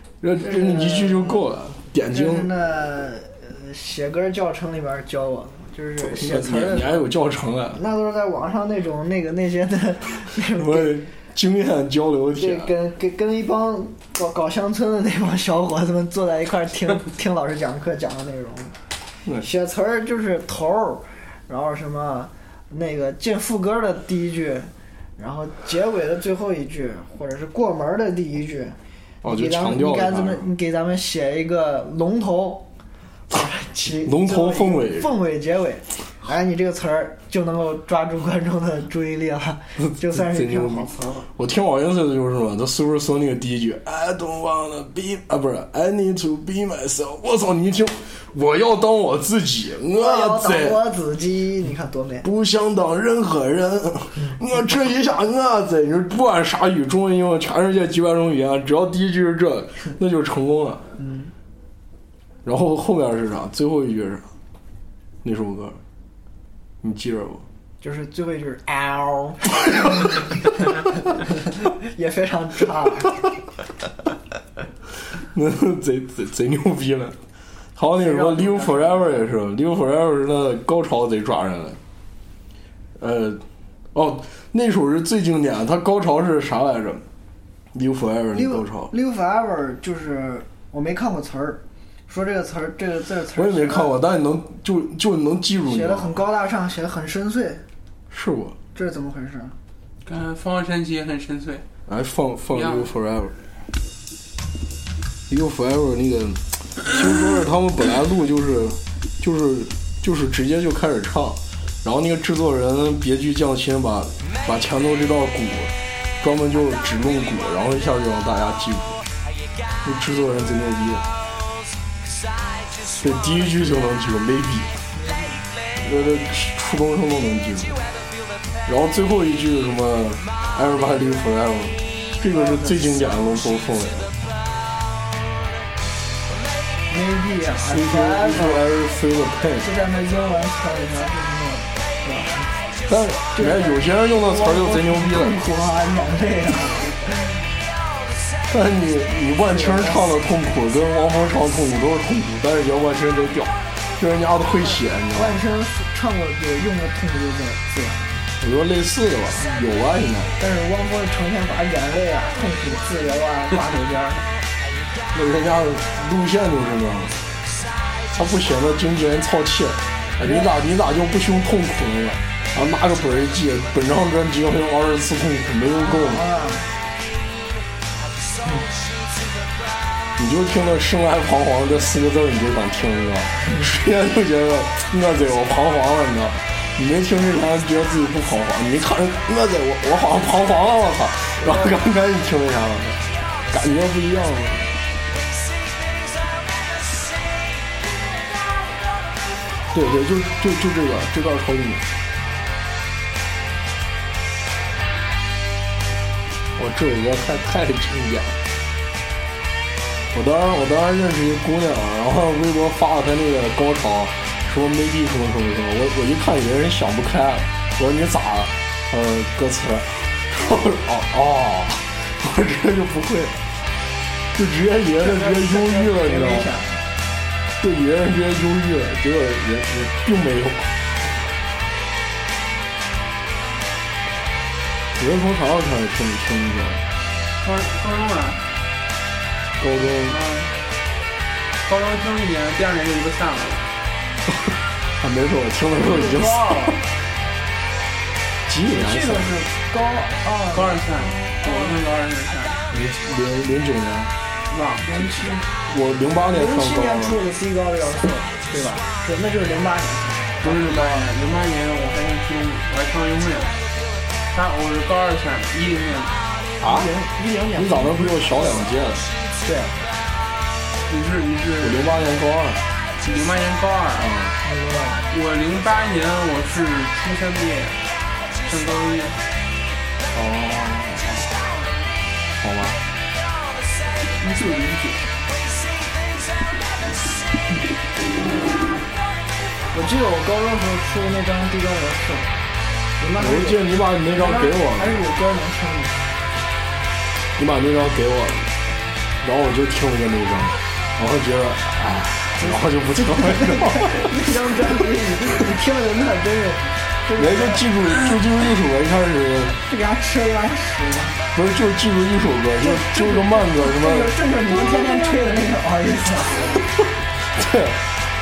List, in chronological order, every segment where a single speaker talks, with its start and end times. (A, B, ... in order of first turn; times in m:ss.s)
0:00.2-0:02.5 A
0:00.4-0:01.4 B
0:02.1-0:07.0 B
0:06.0-0:07.8 A
0:07.8-0:11.0 B
0:10.5-0:12.7 A
0:12.4-0:18.8 B
0:19.4-0:28.8 B
0:29.2-0:30.5 A
0:29.3-0:32.7 B
0:33.3-0:41.3 B
0:34.0-0:35.1 A
0:39.9-0:50.8 A
0:49.9-0:52.3 B
0:52.2-1:00.9 A
1:01.0-1:01.3 B
1:02.4-1:04.3 A
1:05.2-1:05.8 A
1:06.8-1:07.5 A
1:07.8-1:10.0 B
1:11.6-1:13.2 B
1:15.2-1:17.2 A
1:17.8-1:21.8 A
1:17.9-1:19.3 B
1:23.0-1:23.4 A
1:23.9-1:27.0 A
1:27.7-1:28.9 A
1:28.3-1:33.9 B
1:33.4-1:36.2 A
1:35.7-1:37.6 B
1:38.1-1:38.6 A
1:38.8-1:39.6 B
1:40.0-1:41.6 C
1:41.9-1:43.4 A
1:42.5-1:42.9 C
1:45.3-1:59.0 A
1:59.8-2:01.1 A
2:03.0-2:04.7 A
2:05.0-2:05.4 B
2:05.8-2:07.9 A
2:08.7-2:14.1 A
2:12.3-2:12.8 B
2:16.9-2:18.7 B
2:17.7-2:19.7 A
2:19.6-2:22.5 B
2:22.9-2:25.4 A
2:23.3-2:27.4 B
2:28.5-2:35.4 A
2:29.5-2:30.1 B
2:35.1-2:38.2 B
2:38.4-2:40.3 A
2:40.4-2:44.2 B
2:45.1-2:47.2 A
2:48.1-2:56.2 A
2:50.2-2:50.5 B
2:55.8-2:56.7 B
3:00.2-3:14.8 A
3:11.4-3:11.7 B
3:19.7-3:21.9 A
3:26.6-3:28.4 A
3:30.1-3:43.4 A
3:44.3-3:46.5 A
3:45.0-3:46.8 B
3:47.6-3:50.7 A
3:55.0-3:56.8 A
3:57.4-3:58.5 C
3:59.6-4:00.2 A
4:00.0-4:00.6 C
4:01.6-4:03.7 C
4:04.3-4:06.8 A
4:05.8-4:06.8 B
4:08.5-4:09.4 A
4:08.7-4:10.8 B
4:10.5-4:12.7 C
4:12.7-4:14.1 A
4:14.5-4:15.4 C
4:14.8-4:15.4 B
4:15.7-4:17.2 A
4:16.3-4:21.1 B
4:20.4-4:23.6 C
4:24.3-4:26.3 C
4:26.6-4:26.9 A
4:26.7-4:28.4 B
4:27.6-4:29.1 A
4:29.4-4:29.8 B
4:30.9-4:31.9 C
4:31.6-4:32.6 A
4:33.0-4:34.1 C
4:34.0-4:34.3 A
4:34.4-4:35.0 B
4:35.1-4:37.8 C
4:38.4-4:39.2 C
4:40.1-4:41.4 A
4:42.4-4:42.8 A
4:44.2-4:45.0 C
4:49.7-4:52.3 B
4:53.0-4:53.6 B
4:53.2-4:55.0 A
4:54.1-4:56.1 B
4:57.4-4:58.5 A
4:59.2-5:04.2 A
5:02.4-5:07.7 B
5:07.2-5:09.6 A
5:09.7-5:11.2 B
5:11.3-5:14.1 A
5:12.6-5:16.6 B
5:17.2-5:17.9 A